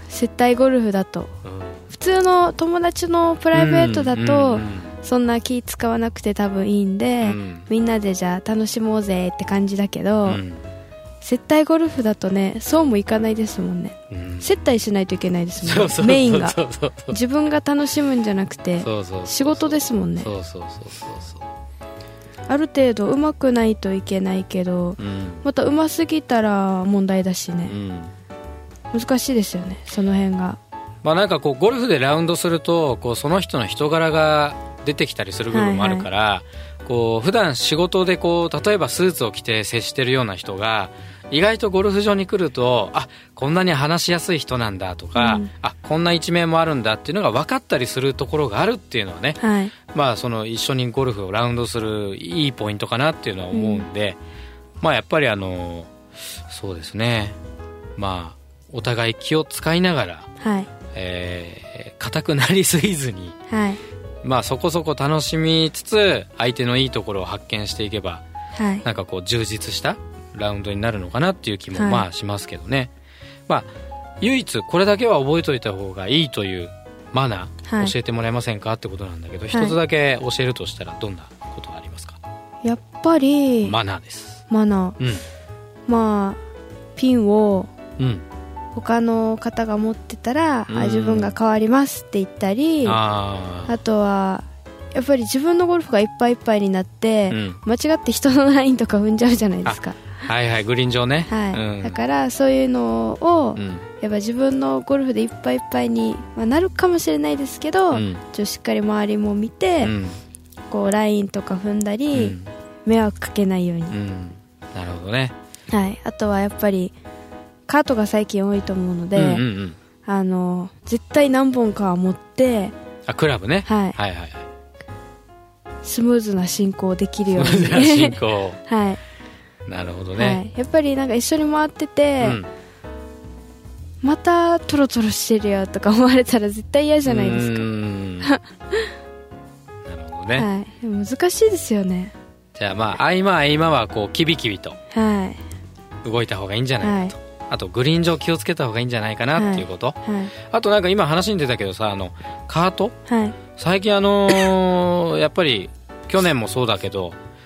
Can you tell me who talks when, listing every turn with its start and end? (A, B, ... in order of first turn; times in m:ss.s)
0:00.1-0:01.3 A
0:01.4-0:01.8 B
0:01.9-0:10.4 A
0:03.5-0:05.0 B
0:07.2-0:07.7 B
0:10.2-0:10.6 B
0:11.2-0:16.6 A
0:14.1-0:14.6 B
0:15.6-0:17.2 B
0:17.1-0:20.3 A
0:18.8-0:21.5 B
0:22.5-0:27.7 A
0:25.0-0:25.4 B
0:27.7-0:28.1 B
0:28.9-0:30.6 A
0:31.0-0:54.2 B
0:35.5-0:36.1 A
0:45.1-0:45.5 A
0:49.4-0:49.7 A
0:53.5-0:53.9 A
0:54.8-0:55.9 B
0:56.5-0:57.4 B
0:58.0-1:00.3 B
1:00.4-1:00.7 A
1:00.9-1:03.4 B
1:03.5-1:03.8 A
1:04.2-1:08.2 B
1:08.5-1:08.8 A
1:08.8-1:12.9 B
1:11.7-1:12.0 A
1:14.2-1:22.2 B
1:17.6-1:17.9 A
1:19.5-1:19.8 A
1:22.6-1:23.8 A
1:23.6-1:24.4 B
1:24.5-1:25.0 A
1:25.0-1:25.2 B
1:25.9-1:26.4 A
1:27.0-1:27.7 A
1:28.0-1:28.2 B
1:28.7-1:33.0 A
1:30.7-1:31.4 B
1:32.8-1:33.7 B
1:33.6-1:40.0 A
1:37.3-1:37.6 B
1:39.6-1:42.0 B
1:41.3-1:49.9 A
1:43.6-1:43.8 B
1:47.9-1:48.2 B
1:49.8-1:50.2 B
1:50.7-1:54.0 A
1:52.1-1:52.5 B
1:53.9-1:55.3 B
1:55.7-1:56.9 A
1:57.7-1:59.4 A
1:59.1-1:59.8 B
2:00.0-2:02.7 A
2:03.1-2:04.4 B
2:03.6-2:04.0 A
2:05.8-2:09.0 A
2:07.3-2:08.6 B
2:09.6-2:10.4 B
2:10.2-2:12.4 A
2:12.2-2:12.5 B
2:14.0-2:17.7 A
2:17.0-2:18.3 B
2:18.2-2:18.9 A
2:19.8-2:20.5 B
2:20.4-2:22.1 A
2:22.5-2:24.8 B
2:24.9-2:25.4 A
2:26.0-2:33.0 B
2:26.8-2:27.1 A
2:29.4-2:30.3 A
2:33.1-2:33.4 A
2:33.6-2:37.2 B